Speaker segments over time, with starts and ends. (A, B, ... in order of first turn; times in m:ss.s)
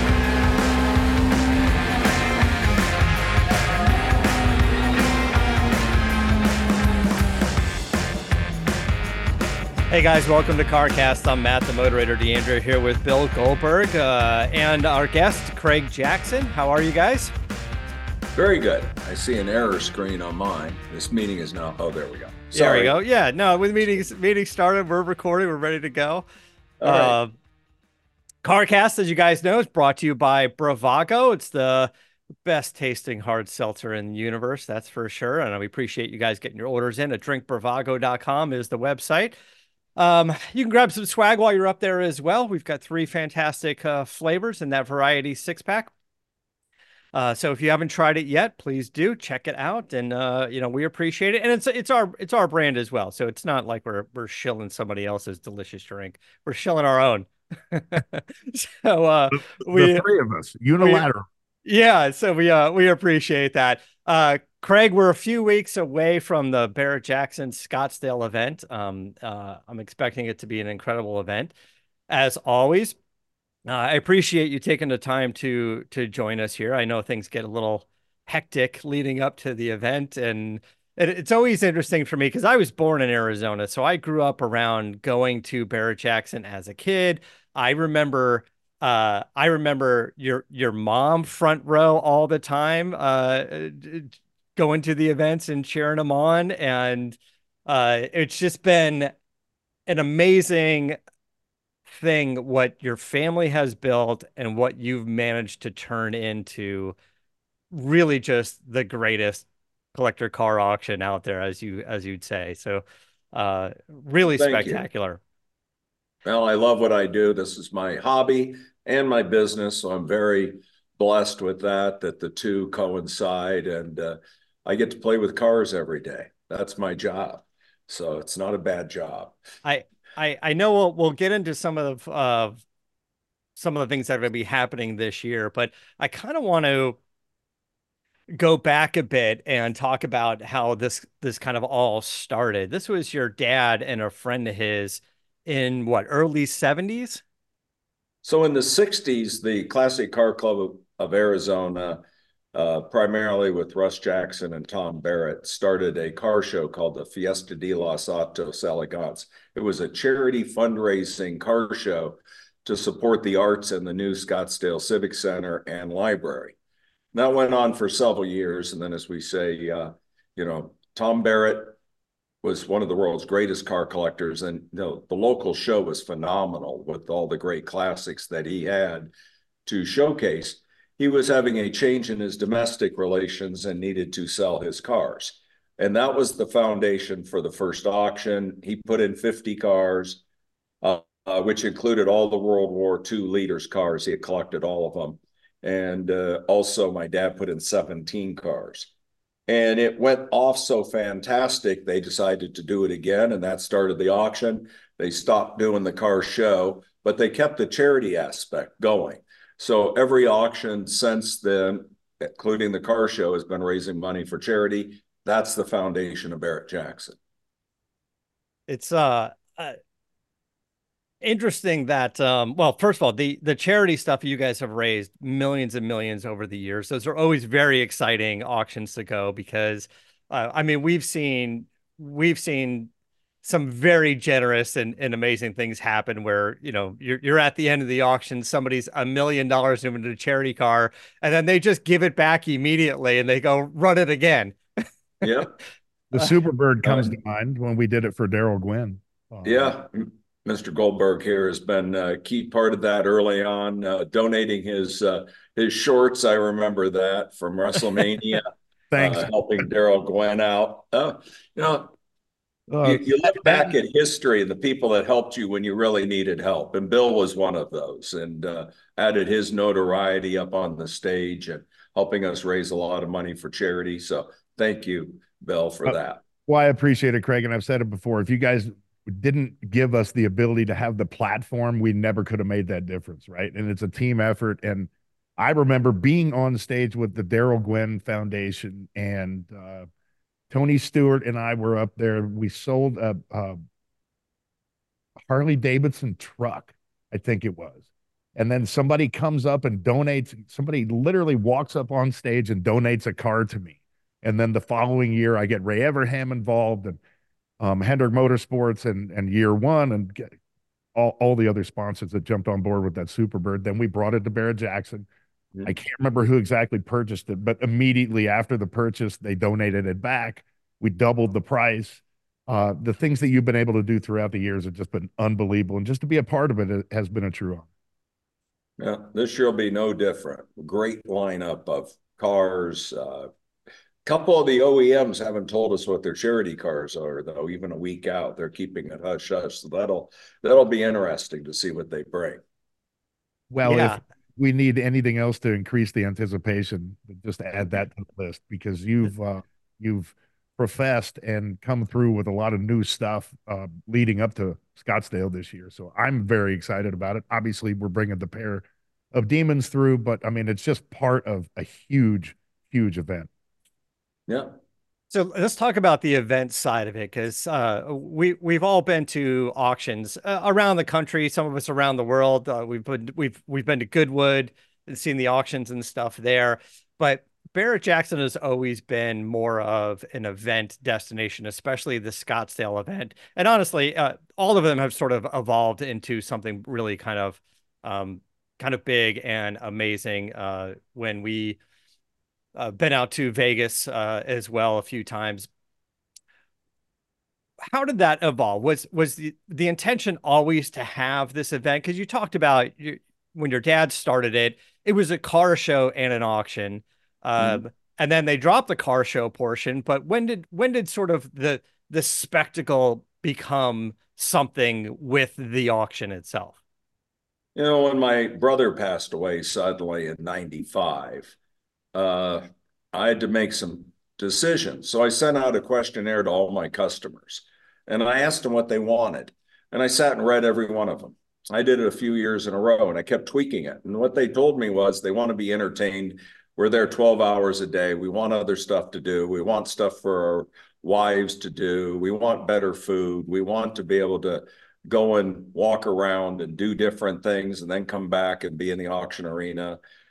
0:09.9-0:17.3 A
0:18.3-0:22.9 B
0:22.5-0:26.2 A
0:26.8-0:27.2 B
0:26.8-0:27.3 A
0:28.4-0:31.9 A
0:32.4-0:39.3 A
0:40.0-0:45.9 A
0:47.1-1:00.0 A
0:59.6-1:01.2 C
1:01.6-1:11.5 A
1:12.1-1:13.0 A
1:13.6-1:39.1 A
1:39.9-1:41.0 A
1:41.9-1:47.0 A
1:47.7-1:55.2 A
1:54.3-1:54.8 B
1:56.2-2:09.4 B
2:09.6-2:12.6 A
2:13.6-2:17.0 A
2:18.3-2:27.2 A
2:28.2-2:32.0 B
2:32.5-2:46.5 B
2:47.1-2:51.8 B
2:52.4-2:59.1 B
2:59.6-3:10.2 B
3:10.8-3:18.9 B
3:19.5-3:37.2 B
3:38.7-3:39.8 A
3:41.2-3:52.9 A
3:53.4-4:04.8 A
4:05.2-4:05.5 B
4:06.1-4:09.7 C
4:06.8-4:07.1 B
4:09.4-4:21.9 B
4:18.9-4:19.3 C
4:22.7-4:23.7 C
4:22.8-4:36.2 B
4:36.5-4:49.9 C
4:50.5-4:53.6 C
4:55.3-4:57.8 C
4:58.4-5:07.0 C
5:07.6-5:10.3 C
5:10.9-5:15.1 C
5:15.6-5:27.7 C
5:28.8-5:33.3 B
5:34.0-5:42.4 B
5:43.5-6:03.3 C
5:43.6-5:44.0 A
6:04.3-6:04.6 B
6:05.1-6:31.6 A
6:32.5-6:35.5 A
6:37.7-6:56.6 A
6:57.5-7:01.3 B
7:01.9-7:29.8 B